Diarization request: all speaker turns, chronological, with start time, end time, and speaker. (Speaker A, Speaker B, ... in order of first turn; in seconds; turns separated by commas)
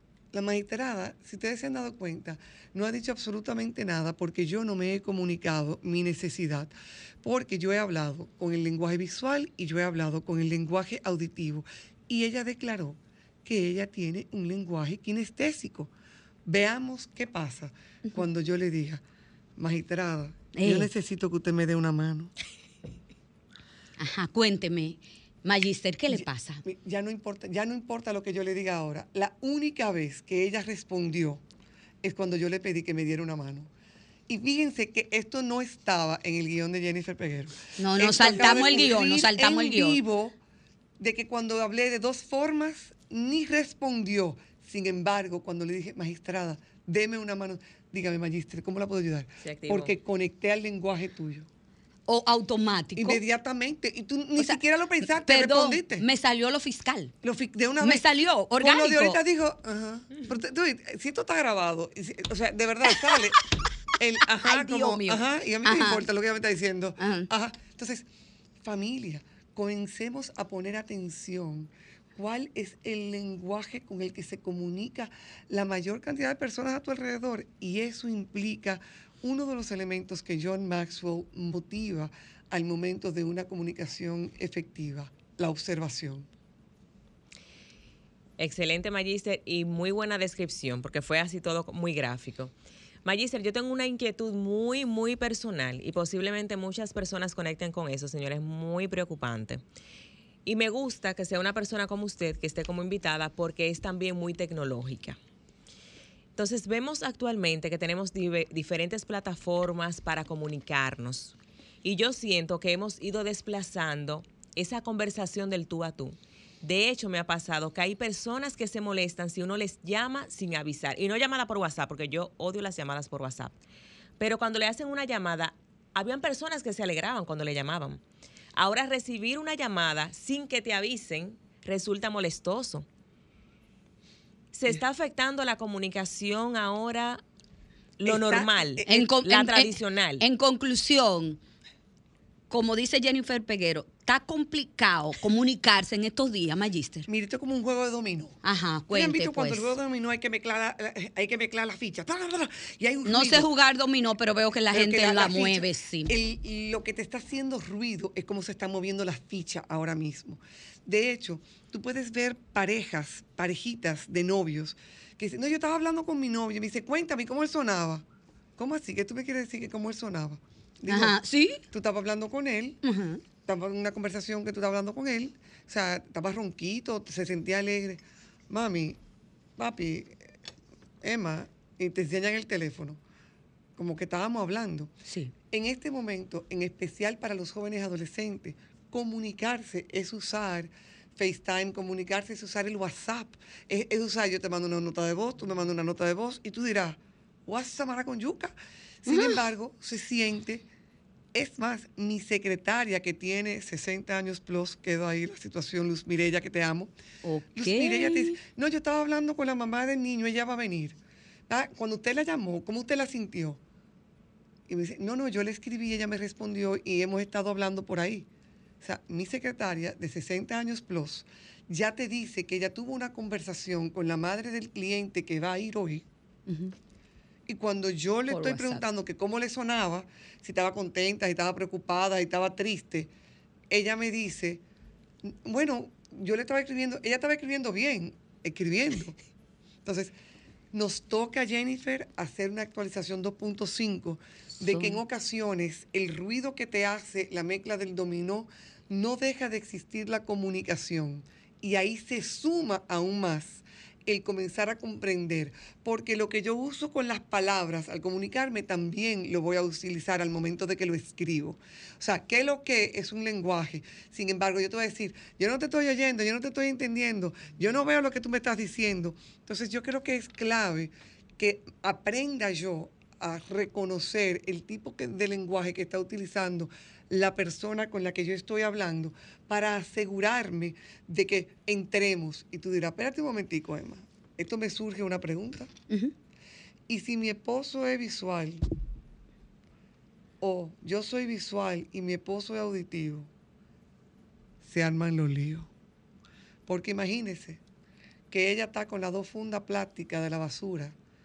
Speaker A: 0.3-15.9, Speaker A: 16.5-19.0, Speaker A: 19.6-22.3, Speaker B: 20.6-20.9, Speaker B: 24.0-26.6, Speaker A: 26.1-31.4, Speaker A: 32.0-33.7, Speaker A: 34.3-40.4, Speaker B: 37.8-40.0, Speaker A: 41.0-51.5, Speaker C: 49.4-49.9, Speaker B: 52.1-53.2, Speaker A: 53.0-56.1, Speaker B: 54.4-57.1, Speaker A: 57.2-63.4, Speaker B: 57.8-59.2, Speaker A: 64.0-68.1, Speaker B: 64.4-66.0, Speaker B: 67.0-67.3, Speaker A: 68.6-86.3, Speaker C: 88.4-92.5, Speaker C: 93.0-99.6, Speaker C: 100.5-105.2, Speaker C: 106.4-123.6, Speaker C: 124.2-128.0, Speaker C: 128.6-132.9, Speaker C: 134.5-137.2, Speaker C: 138.0-140.2, Speaker A: 138.1-139.1, Speaker B: 138.9-141.4, Speaker B: 142.5-147.1, Speaker A: 147.1-148.4, Speaker B: 148.4-149.7, Speaker A: 148.9-153.5, Speaker B: 153.1-156.1, Speaker A: 154.7-168.1, Speaker A: 168.6-171.2, Speaker B: 170.9-171.6, Speaker A: 171.7-172.8, Speaker B: 172.8-173.2, Speaker A: 173.4-179.0, Speaker A: 179.6-180.3, Speaker A: 181.0-183.0, Speaker A: 183.8-184.9, Speaker B: 185.1-185.3, Speaker A: 185.5-200.7, Speaker B: 199.1-199.4, Speaker A: 201.3-206.9, Speaker B: 207.2-208.4, Speaker A: 207.6-211.0, Speaker A: 211.5-213.6, Speaker A: 214.7-218.3, Speaker A: 218.8-226.1, Speaker B: 226.5-226.7, Speaker A: 227.5-233.1, Speaker B: 228.3-228.8, Speaker A: 233.7-234.6, Speaker A: 235.2-239.2, Speaker A: 239.8-240.2, Speaker A: 240.7-285.7, Speaker B: 244.6-245.0, Speaker A: 286.9-288.6, Speaker A: 290.4-293.3, Speaker A: 294.6-295.7, Speaker A: 296.7-297.6, Speaker A: 298.3-301.0